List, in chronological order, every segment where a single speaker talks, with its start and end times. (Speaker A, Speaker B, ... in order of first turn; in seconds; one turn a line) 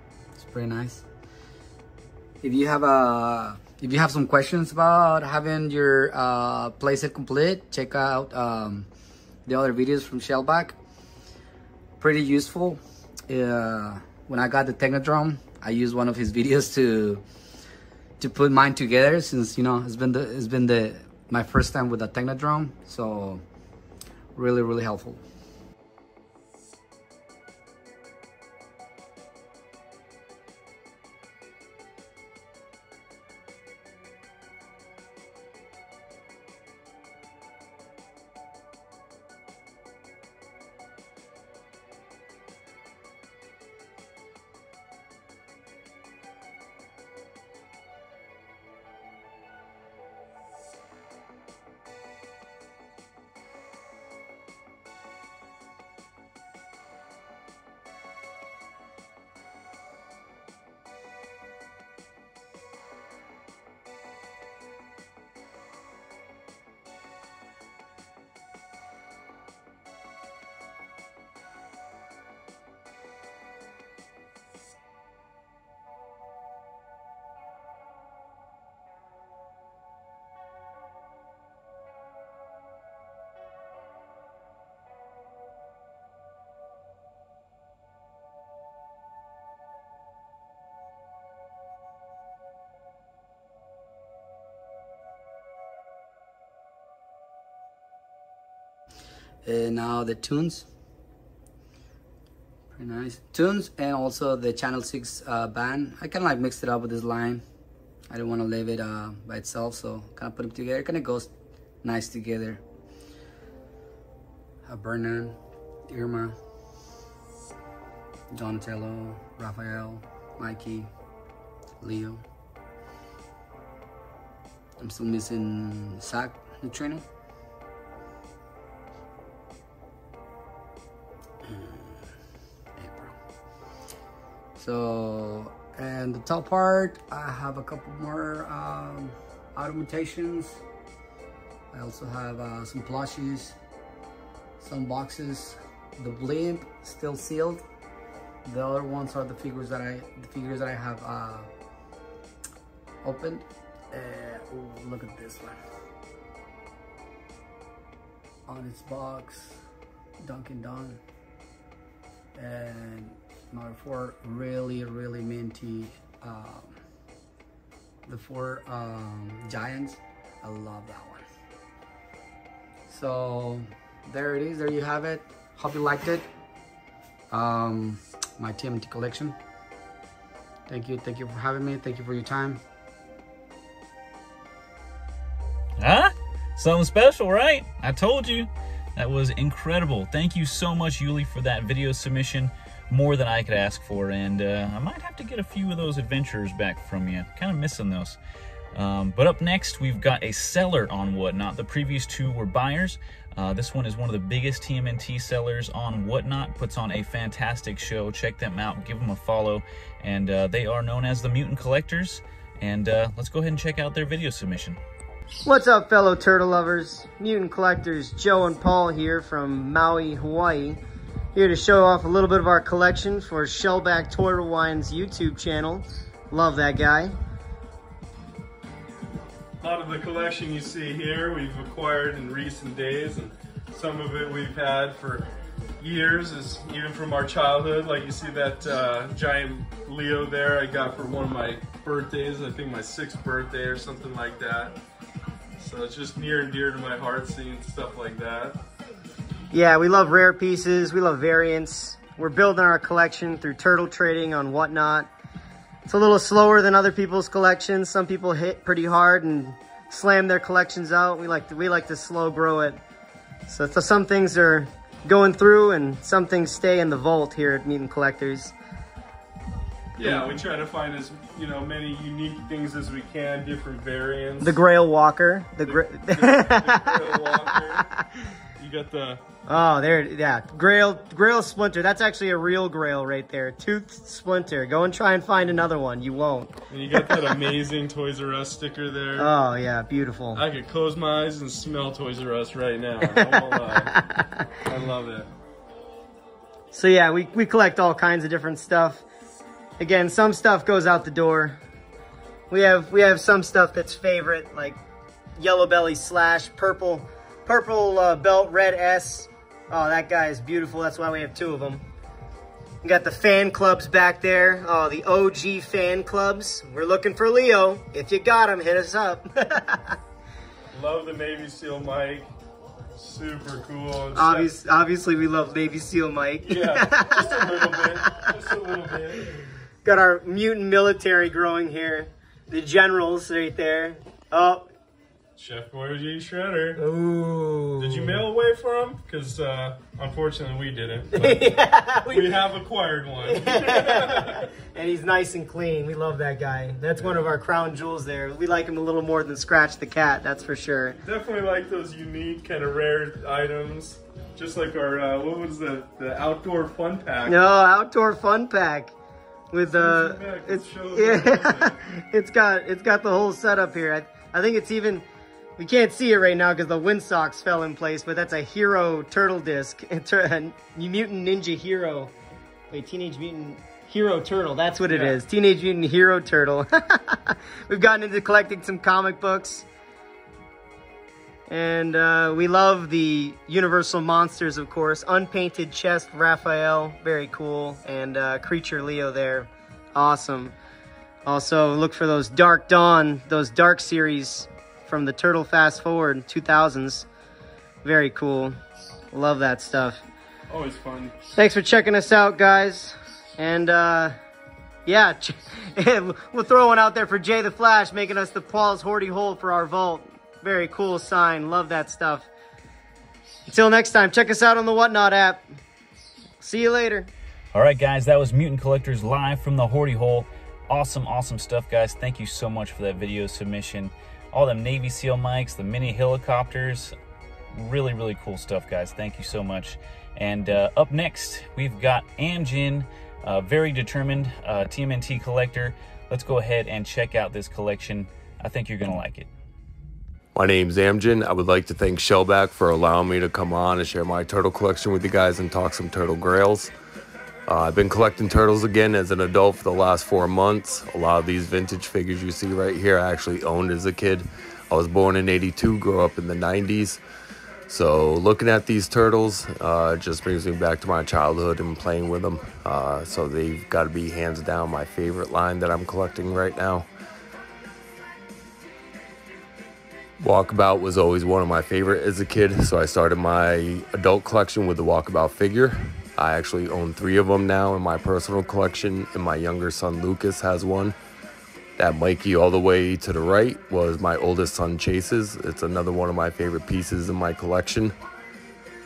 Speaker A: 0.4-1.1
Speaker A: 2.4-8.9
Speaker A: 9.5-10.8
Speaker A: 12.0-17.2
Speaker A: 18.2-23.4
Speaker A: 24.4-25.2
Speaker A: 99.4-100.7
Speaker A: 102.7-107.4
Speaker A: 108.1-111.3
Speaker A: 111.8-112.6
Speaker A: 114.6-116.4
Speaker A: 118.3-120.9
Speaker A: 121.8-122.2
Speaker A: 124.8-127.0
Speaker A: 131.4-132.1
Speaker A: 132.8-133.1
Speaker A: 134.6-140.6
Speaker A: 141.7-143.6
Speaker A: 144.6-147.6
Speaker A: 148.4-151.5
Speaker A: 153.0-155.6
Speaker A: 158.5-159.6
Speaker A: 160.2-161.0
Speaker A: 162.3-166.8
Speaker A: 168.1-171.2
Speaker A: 172.9-176.3
Speaker A: 177.3-179.4
Speaker A: 180.7-182.6
Speaker B: 185.8-198.2
Speaker B: 198.7-214.8
Speaker C: 215.4-220.8
Speaker C: 221.3-227.2
Speaker D: 229.6-235.3
Speaker D: 235.8-244.8
Speaker D: 245.6-248.6
Speaker C: 249.5-255.1
Speaker C: 255.9-262.8
Speaker C: 263.5-268.5
Speaker D: 270.0-274.6
Speaker C: 270.0-270.4
Speaker C: 274.4-278.0
Speaker D: 275.6-277.8
Speaker D: 278.6-279.2
Speaker C: 279.5-287.4
Speaker D: 286.7-289.4
Speaker C: 289.2-290.4
Speaker D: 290.3-293.9
Speaker C: 293.0-294.5
Speaker D: 294.6-295.3
Speaker C: 296.7-299.0
Speaker C: 299.8-301.6
Speaker C: 302.5-304.8
Speaker C: 305.4-311.8
Speaker C: 312.8-320.0
Speaker D: 320.7-322.3
Speaker D: 322.9-324.5
Speaker C: 324.1-328.7
Speaker D: 326.4-329.4
Speaker C: 329.8-334.7
Speaker D: 335.4-336.8
Speaker C: 336.8-338.2
Speaker D: 337.8-341.5
Speaker C: 341.1-342.4
Speaker D: 342.1-344.5
Speaker C: 343.2-351.0
Speaker D: 347.0-347.2
Speaker D: 351.0-357.4
Speaker C: 357.2-358.9
Speaker C: 359.5-365.1
Speaker D: 359.6-361.8
Speaker C: 365.6-372.1
Speaker C: 372.7-379.6
Speaker D: 374.9-375.2
Speaker C: 381.5-390.6
Speaker C: 391.2-397.1
Speaker C: 397.8-398.6
Speaker C: 399.1-400.0
Speaker D: 400.5-401.1
Speaker C: 401.4-404.1
Speaker C: 404.9-412.3
Speaker C: 413.5-415.5
Speaker C: 416.4-417.1
Speaker B: 417.5-426.9
Speaker B: 427.5-439.3
Speaker E: 440.4-446.7
Speaker E: 447.5-457.0
Speaker E: 457.7-466.9
Speaker E: 470.2-481.0
Speaker E: 481.8-488.0